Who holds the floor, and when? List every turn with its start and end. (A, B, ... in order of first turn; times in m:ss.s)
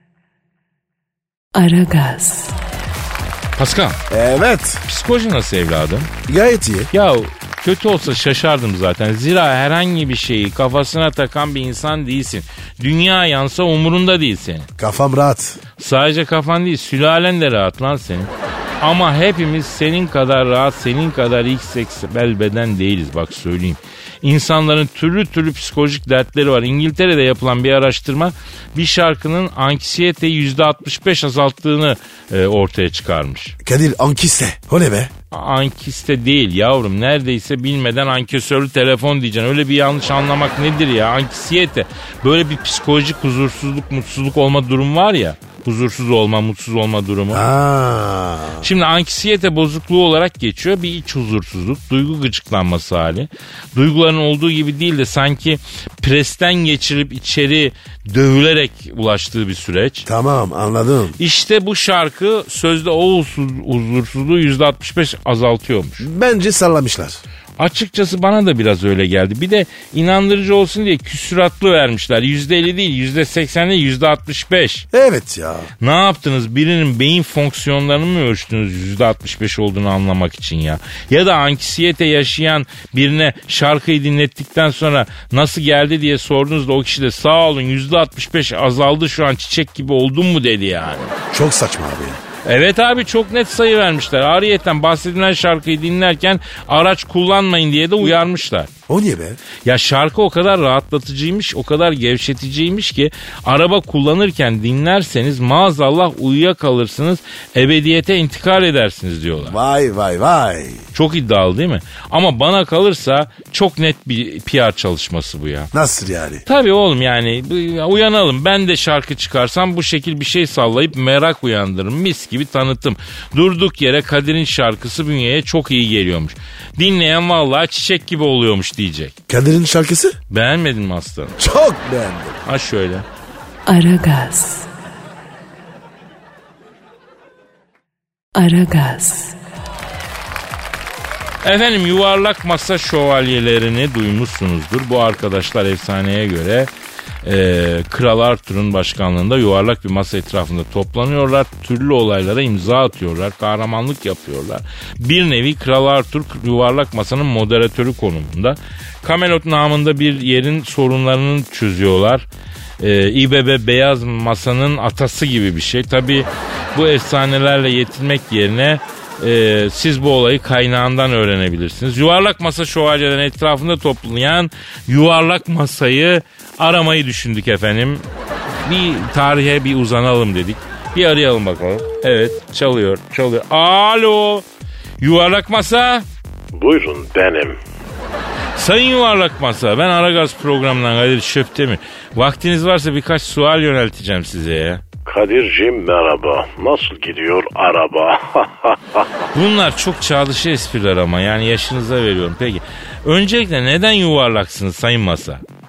0:01.5-0:02.6 A
0:03.6-0:04.0 B
0:04.1-0:04.8 C
0:04.8-0:06.1 B
0:06.3-0:06.9 C
0:06.9-0:14.7 B
0:14.8-0:15.6 C
0:15.8-0:33.6 B
0:33.6-0:35.1 C
0:35.3-0:47.4 B
0:47.3-0:48.7 C
0:48.6-1:00.0 B
1:00.0-1:01.2 C
1:01.2-1:06.1 B
1:06.0-1:07.2 C
1:07.6-1:14.8 B
1:14.9-1:15.7 C
1:15.8-1:31.1 B
1:31.3-1:32.2 C
1:32.4-1:38.7 B
1:38.9-1:39.4 C
1:39.6-1:49.6 B
1:49.5-1:50.8 C
1:50.9-1:55.7 B
1:55.7-1:56.4 C
1:56.4-2:09.1 B
2:09.3-2:10.2 C
2:10.3-2:11.4 B
2:11.4-2:12.4 C
2:12.4-2:13.0 B
2:13.6-2:14.7 A
2:18.3-2:19.4 A
2:21.4-2:26.7 B
2:27.2-2:42.2 B
2:42.8-2:58.0 B
2:58.6-3:04.4 B
3:05.0-3:06.0 B
3:06.5-3:07.6 D
3:08.6-3:14.8 B
3:15.0-3:19.1 D
3:19.3-3:25.4 B